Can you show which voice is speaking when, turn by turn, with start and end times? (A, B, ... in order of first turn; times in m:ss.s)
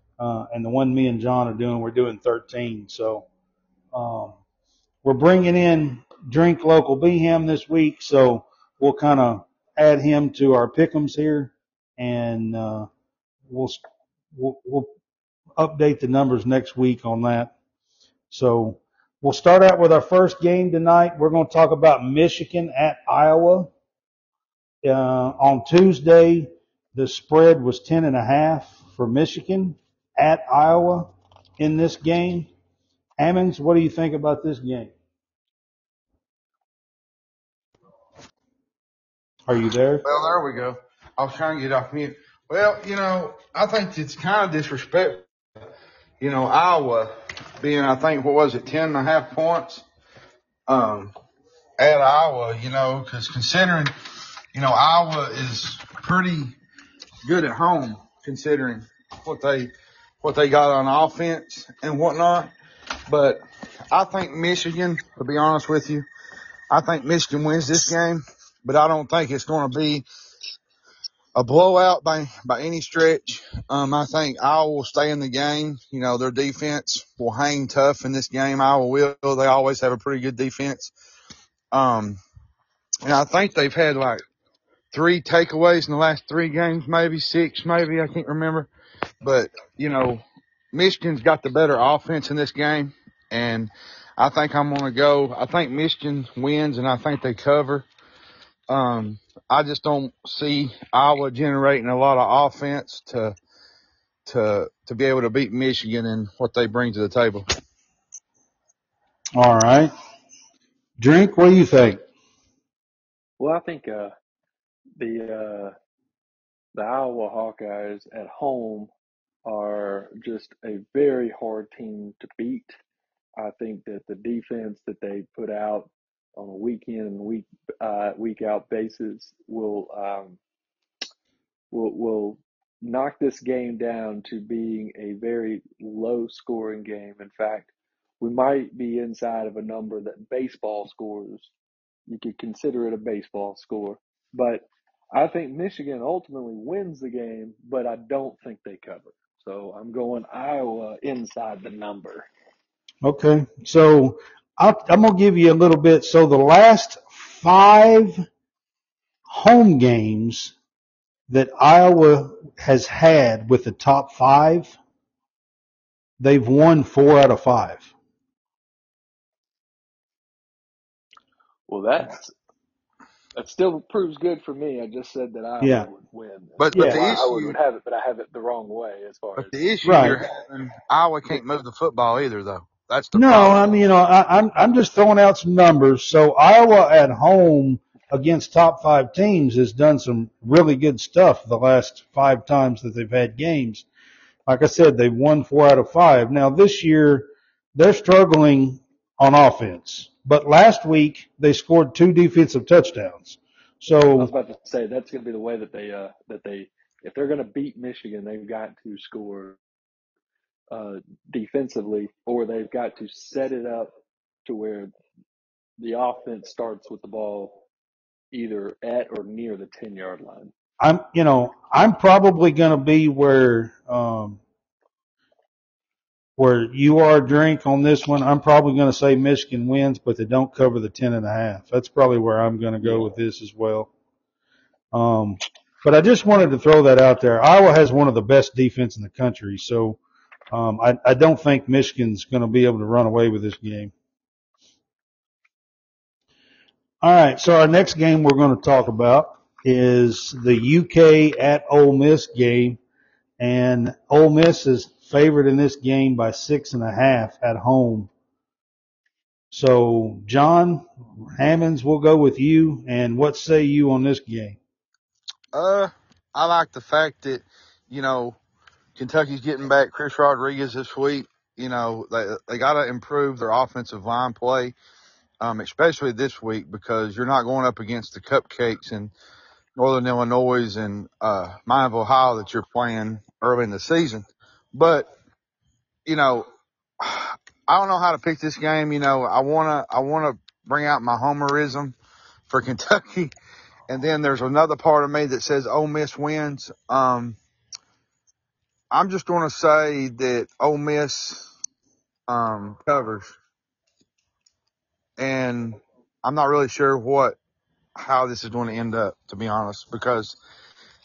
0:00.2-0:03.3 A
0:03.9-0:04.4 A
0:05.0-0:12.9 A
0:13.5-0:13.8 A
0:14.3-0:14.9 A
0:15.6-0:17.5 A
0:18.3-0:23.7 A
0:24.8-0:32.5 A
0:33.2-0:34.9 A
0:39.5-0:40.0 A
0:40.0-0:45.2 B
0:46.2-0:49.8 B
0:50.7-0:51.1 B
0:51.8-0:53.9 B
0:54.5-0:56.5 B
0:57.2-0:59.7 B
1:00.2-1:02.5 B
1:03.1-1:03.4 B
1:03.9-1:06.0 B
1:06.7-1:10.0 B
1:11.3-1:20.9 B
1:21.7-1:22.2 B
1:23.0-1:24.2 B
1:24.9-1:28.7 B
1:29.2-1:37.8 B
1:38.7-1:43.4 B
1:44.2-1:47.4 B
1:49.4-1:49.9 A
1:51.0-1:52.0 A
1:53.4-1:54.1 C
1:55.0-1:55.7 C
1:56.7-1:58.9 C
1:59.4-2:02.7 C
2:03.4-2:10.4 C
2:11.7-2:21.5 C
2:22.1-2:32.3 C
2:33.0-2:38.2 A
2:39.3-2:40.5 A
2:41.3-2:44.8 A
2:46.2-2:47.9 A
2:51.7-2:52.3 C
2:53.4-2:59.6 C
2:55.6-2:55.9 A
2:56.6-2:57.6 B
2:56.7-2:57.0 A
2:59.4-3:03.8 B
2:59.8-3:00.2 A
3:03.1-3:13.8 A
3:14.5-3:24.3 A
3:24.2-3:29.6 C
3:30.7-3:33.9 C
3:34.4-3:34.9 C
3:35.8-3:37.6 C
3:38.3-3:40.5 C
3:40.8-3:44.4 A
3:46.4-3:53.9 A
3:54.9-4:00.0 A
4:00.5-4:03.9 A
4:07.0-4:12.8 A
4:13.4-4:18.1 A
4:19.5-4:24.6 A
4:25.5-4:28.4 B
4:29.0-4:34.8 B
4:35.4-4:39.1 B
4:39.8-4:45.1 B
4:46.0-4:46.5 B
4:47.0-4:52.0 B
4:52.5-4:53.3 B
4:53.9-4:57.4 B
4:58.9-5:01.5 B
5:02.3-5:03.3 B
5:05.2-5:07.4 B
5:08.0-5:10.4 B